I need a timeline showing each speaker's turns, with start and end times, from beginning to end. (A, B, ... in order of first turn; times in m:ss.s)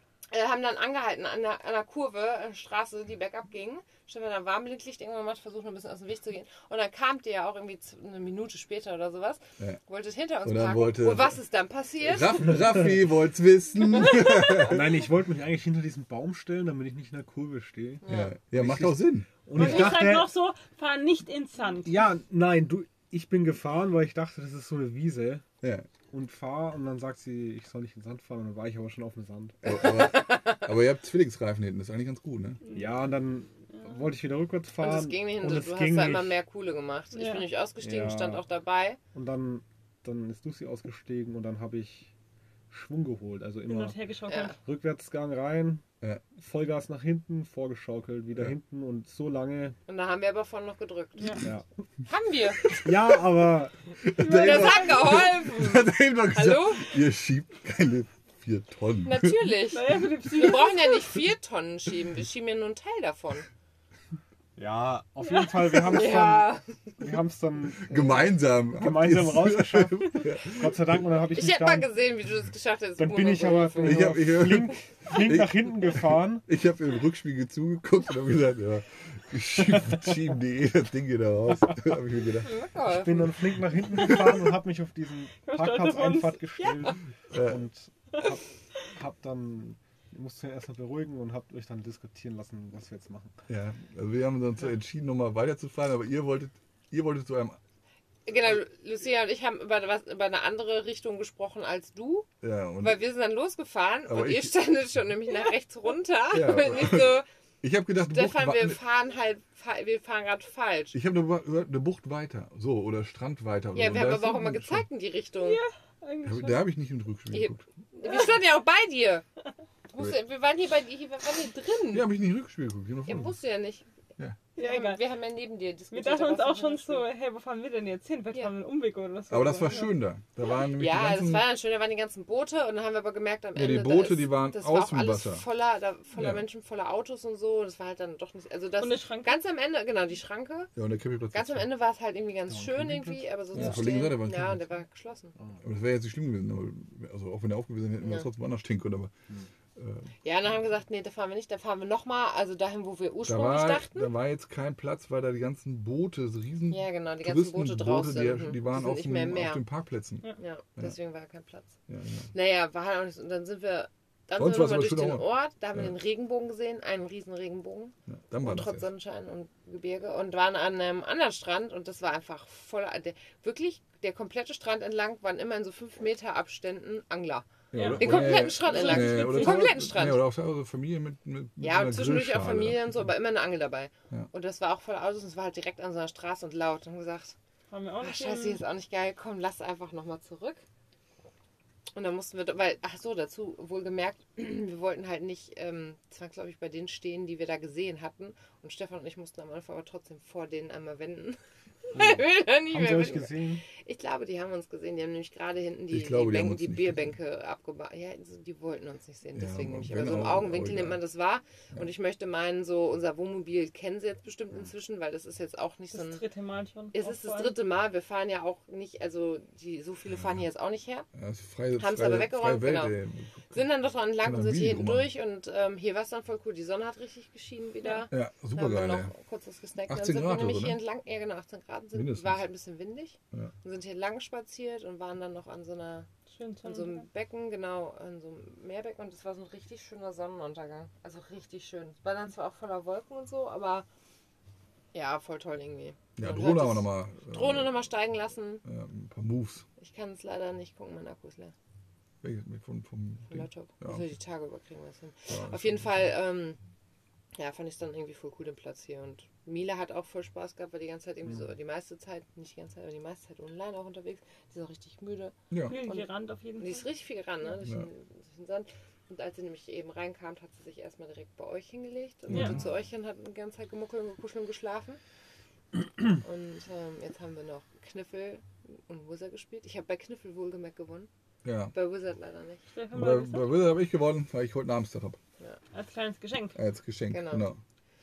0:00.3-0:12.5 A
0:10.4-0:11.4 B
0:12.0-0:14.8 B
0:14.6-0:20.3 C
0:18.0-0:18.4 A
0:18.0-0:19.9 B
0:19.5-0:22.0 D
0:21.8-0:25.4 C
0:25.6-0:25.9 B
0:26.1-0:29.8 C
0:29.6-0:32.6 B
0:29.7-0:30.6 A
0:32.6-0:32.9 D
0:32.7-0:36.4 C
0:34.8-0:39.0 A
0:37.1-0:37.5 D
0:37.8-0:38.4 C
0:39.1-0:42.1 C
0:42.7-0:45.8 C
0:43.6-0:44.6 D
0:44.3-0:44.6 A
0:46.3-0:49.8 C
0:49.9-0:51.5 A
0:51.2-0:51.4 D
0:52.0-0:52.6 A
0:52.6-0:52.9 B
0:52.8-0:53.9 C
0:54.0-0:59.5 B
0:54.2-0:55.2 D
0:54.3-0:57.0 A
0:59.0-1:03.5 A
0:59.7-1:01.1 D
1:04.6-1:11.9 C
1:05.2-1:05.5 D
1:05.8-1:06.8 A
1:07.8-1:10.7 B
1:11.3-1:14.2 A
1:13.0-1:16.4 C
1:13.8-1:22.5 B
1:22.4-1:23.6 A
1:22.8-1:33.4 C
1:25.4-1:27.0 D
1:27.3-1:27.6 B
1:33.5-1:37.6 B
1:38.2-1:42.3 A
1:42.4-1:43.0 B
1:42.8-1:47.2 A
1:44.0-1:44.5 B
1:46.3-1:48.8 B
1:48.0-1:50.9 A
1:50.9-1:54.8 B
1:53.7-1:55.6 A
1:55.4-1:56.7 D
1:56.2-1:57.6 B
1:57.3-1:59.2 A
1:59.9-2:02.1 A
2:01.9-2:03.4 B
2:03.0-2:03.9 A
2:04.6-2:05.0 D
2:04.6-2:07.0 A
2:05.9-2:09.9 D
2:09.3-2:11.5 B
2:10.7-2:20.7 A
2:13.5-2:15.4 B
2:16.1-2:16.4 B
2:18.8-2:19.4 D
2:20.7-2:21.7 B
2:21.3-2:25.3 A
2:22.5-2:24.0 C
2:23.5-2:24.6 B
2:25.6-2:29.1 B
2:28.0-2:28.3 A
2:29.7-2:30.1 B
2:30.2-2:34.1 A
2:33.2-2:40.9 B
2:36.7-2:39.6 A
2:40.4-2:41.7 A
2:41.9-2:42.3 B
2:42.3-3:00.2 A
2:44.3-2:45.9 B
2:48.1-2:48.9 B
2:57.7-3:03.1 B
2:57.7-2:59.8 D
3:01.6-3:07.4 A
3:07.7-3:08.6 D
3:08.0-3:10.6 A
3:12.0-3:21.4 A
3:21.9-3:36.2 A
3:21.9-3:23.6 C
3:25.9-3:27.1 B
3:29.3-3:31.0 B
3:35.9-3:37.6 D
3:36.9-3:41.1 A
3:41.1-3:43.6 B
3:41.8-3:43.0 A
3:43.5-3:56.1 A
3:44.2-3:45.1 B
3:48.1-3:49.1 B
3:49.9-3:50.8 B
3:51.9-3:52.4 B
3:56.3-3:57.0 D
3:56.6-4:03.8 A
4:04.9-4:08.6 A
4:06.2-4:07.7 B
4:08.6-4:09.6 B
4:09.8-4:11.5 A
4:12.2-4:14.0 B
4:13.3-4:16.6 A
4:15.3-4:16.0 B
4:17.3-4:35.0 A
4:25.5-4:25.8 B
4:25.7-4:26.8 D
4:32.3-4:32.6 B
4:32.3-4:32.6 D
4:36.0-4:41.1 A
4:41.4-4:41.7 B
4:41.7-4:42.6 A
4:42.7-4:43.5 D
4:42.9-4:45.2 B
4:45.7-4:46.6 D
4:46.5-4:47.6 B
4:47.1-4:47.5 A